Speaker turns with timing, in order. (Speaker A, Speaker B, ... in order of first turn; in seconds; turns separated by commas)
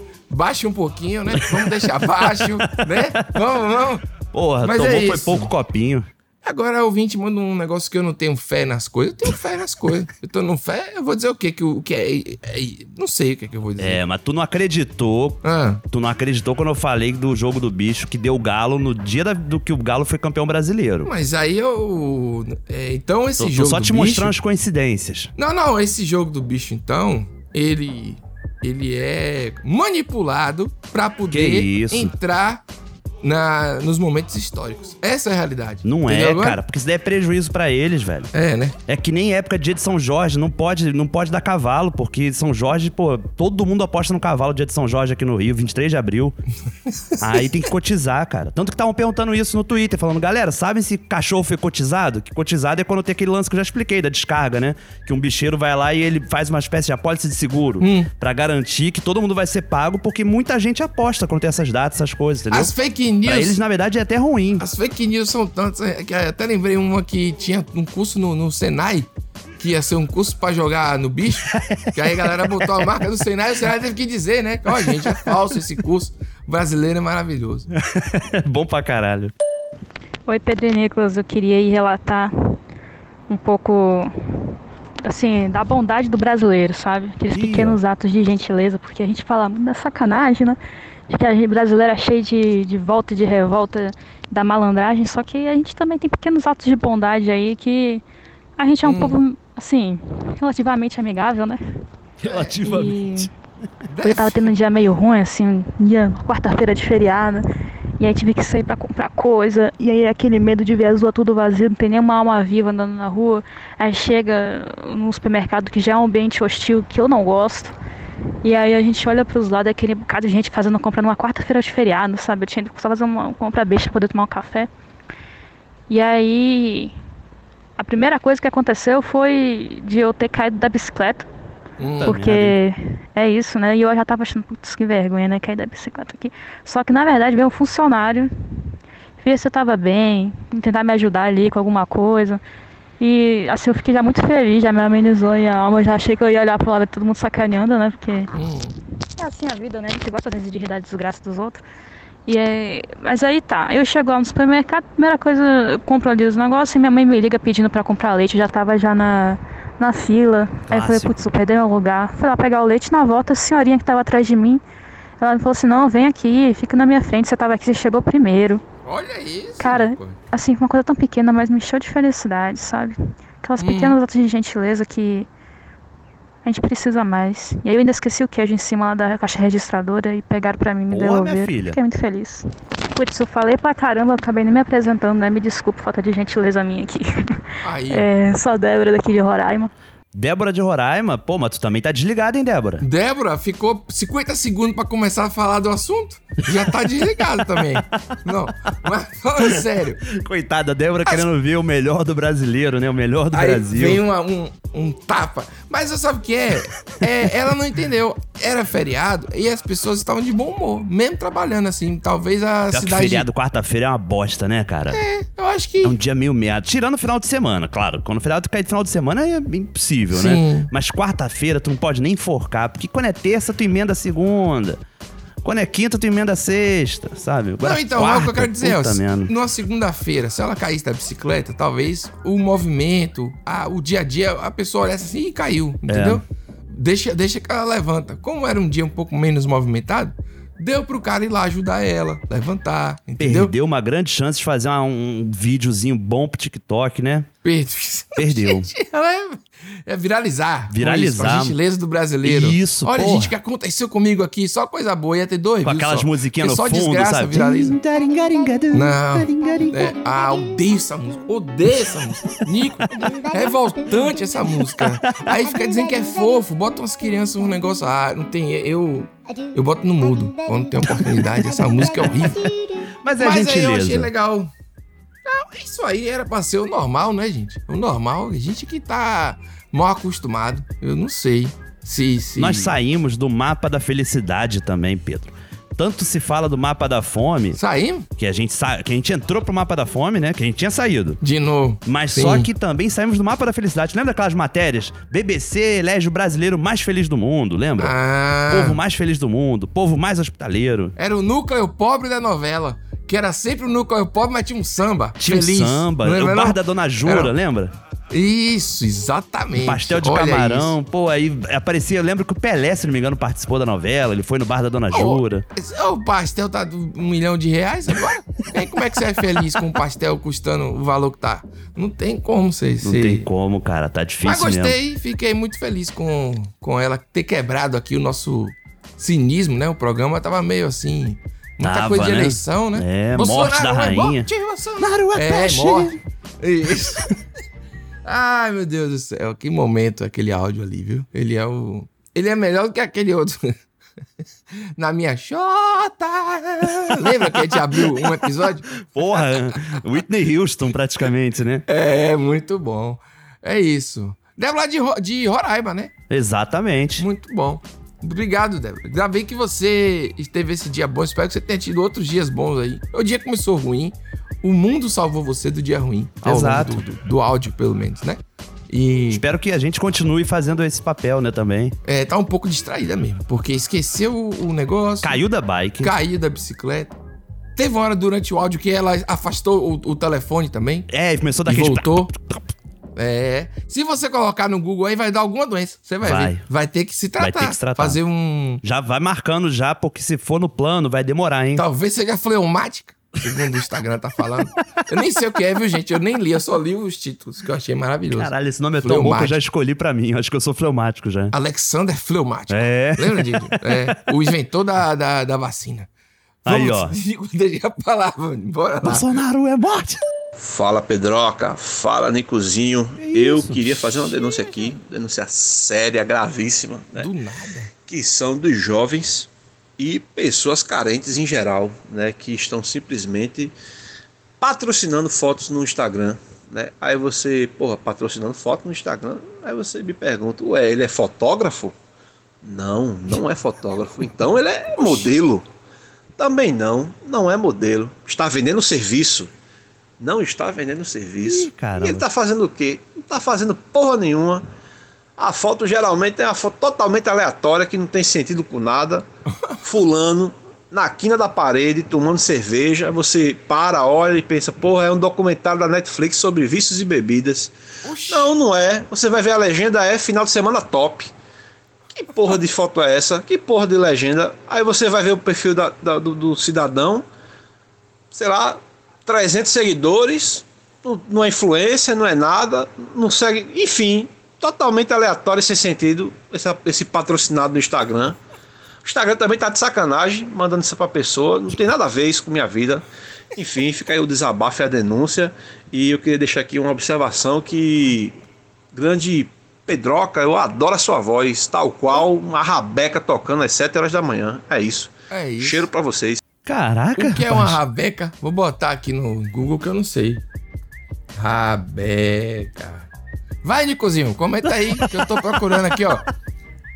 Speaker A: 0.3-4.0, Speaker B: 1.5-3.1, Speaker B: 4.3-6.1, Speaker A: 4.6-5.5, Speaker A: 6.4-14.0, Speaker B: 13.8-15.4, Speaker A: 15.4-15.8, Speaker B: 15.9-21.1, Speaker A: 21.1-24.4, Speaker B: 23.4-25.3, Speaker A: 25.4-32.6, Speaker B: 31.3-32.1, Speaker A: 33.2-36.6, Speaker B: 35.9-38.3, Speaker A: 38.3-38.8, Speaker B: 38.9-46.4, Speaker B: 47.2-62.7, Speaker A: 57.8-58.1, Speaker A: 62.5-63.6, Speaker B: 63.2-64.6, Speaker A: 64.6-77.7, Speaker B: 74.7-75.3, Speaker B: 77.9-79.3, Speaker C: 80.3-82.3, Speaker C: 83.3-84.1, Speaker C: 85.0-98.0, Speaker B: 87.3-87.8, Speaker C: 98.6-101.6, Speaker A: 98.8-99.2, Speaker B: 102.2-103.3, Speaker A: 102.2-102.5, Speaker C: 102.6-103.3, Speaker A: 103.9-104.5, Speaker C: 104.0-107.4, Speaker C: 108.0-117.7, Speaker C: 118.4-124.7, Speaker C: 125.9-126.9, Speaker C: 127.8-131.3, Speaker A: 131.8-132.2, Speaker B: 132.0-132.6, Speaker C: 132.0-138.3, Speaker C: 139.2-142.4, Speaker C: 143.0-148.3, Speaker A: 148.3-148.8, Speaker C: 149.2-151.6, Speaker C: 152.3-164.6, Speaker B: 160.7-161.3, Speaker C: 165.2-168.6, Speaker A: 168.8-170.2, Speaker C: 169.6-175.3, Speaker A: 173.6-173.9, Speaker C: 176.4-187.4, Speaker B: 180.9-181.8, Speaker A: 187.6-188.1, Speaker C: 187.9-189.7, Speaker B: 190.1-192.8, Speaker A: 192.8-200.0, Speaker B: 200.1-204.0, Speaker A: 203.3-213.3, Speaker B: 212.7-215.0, Speaker A: 214.9-216.0, Speaker B: 215.8-224.8, Speaker A: 220.1-220.7, Speaker B: 225.4-229.3, Speaker A: 227.6-243.5, Speaker B: 235.9-236.2, Speaker B: 243.2-247.3, Speaker A: 247.4-257.8, Speaker B: 248.2-248.7, Speaker B: 250.7-251.6, Speaker B: 252.2-253.3, Speaker B: 255.6-259.9, Speaker A: 258.7-272.5, Speaker B: 264.8-265.2, Speaker B: 273.0-274.1, Speaker A: 273.2-274.5, Speaker A: 275.2-282.7, Speaker B: 282.4-287.6, Speaker A: 287.5-288.1, Speaker B: 288.2-291.2, Speaker A: 291.2-292.5, Speaker B: 291.9-297.9, Speaker A: 297.8-298.8, Speaker B: 298.5-300.9, Speaker A: 301.0-307.3, Speaker B: 305.2-307.7, Speaker A: 308.1-310.7, Speaker B: 309.6-315.4, Speaker A: 314.9-323.2, Speaker B: 322.8-324.8, Speaker A: 324.2-337.1, Speaker B: 331.6-334.3, Speaker B: 334.8-335.9, Speaker A: 338.1-343.6, Speaker A: 344.8-349.5, Speaker B: 348.9-351.6, Speaker A: 351.7-355.9, Speaker B: 356.1-357.1, Speaker A: 357.0-369.2, Speaker B: 366.2-366.8, Speaker B: 369.1-371.7, Speaker A: 371.9-375.2, Speaker B: 375.0-375.9, Speaker A: 375.8-376.9, Speaker A: 377.6-380.9, Speaker B: 380.9-382.4, Speaker A: 381.4-382.1, Speaker A: 382.9-388.6, Speaker B: 386.0-386.4, Speaker B: 387.2-388.0, Speaker B: 388.6-391.6, Speaker A: 391.6-399.4, Speaker B: 398.1-401.3, Speaker A: 401.3-405.9, Speaker B: 402.5-403.9, Speaker A: 406.4-409.1, Speaker B: 406.4-406.9, Speaker B: 408.8-410.0, Speaker D: 410.4-417.1, Speaker B: 413.0-414.4, Speaker A: 416.9-417.7, Speaker D: 417.9-423.5, Speaker D: 424.4-431.7, Speaker D: 432.4-435.4, Speaker D: 436.2-439.3, Speaker D: 440.0-444.4, Speaker B: 441.2-442.1, Speaker D: 445.2-449.1, Speaker D: 449.6-457.5, Speaker A: 457.9-458.3, Speaker D: 458.1-461.1, Speaker A: 461.9-462.4, Speaker D: 462.1-467.1, Speaker D: 468.1-478.2, Speaker D: 478.8-482.8, Speaker D: 483.4-488.1, Speaker D: 488.7-496.2, Speaker A: 495.1-495.6, Speaker B: 496.4-497.6, Speaker A: 497.0-500.2, Speaker A: 501.1-502.9, Speaker A: 503.4-506.1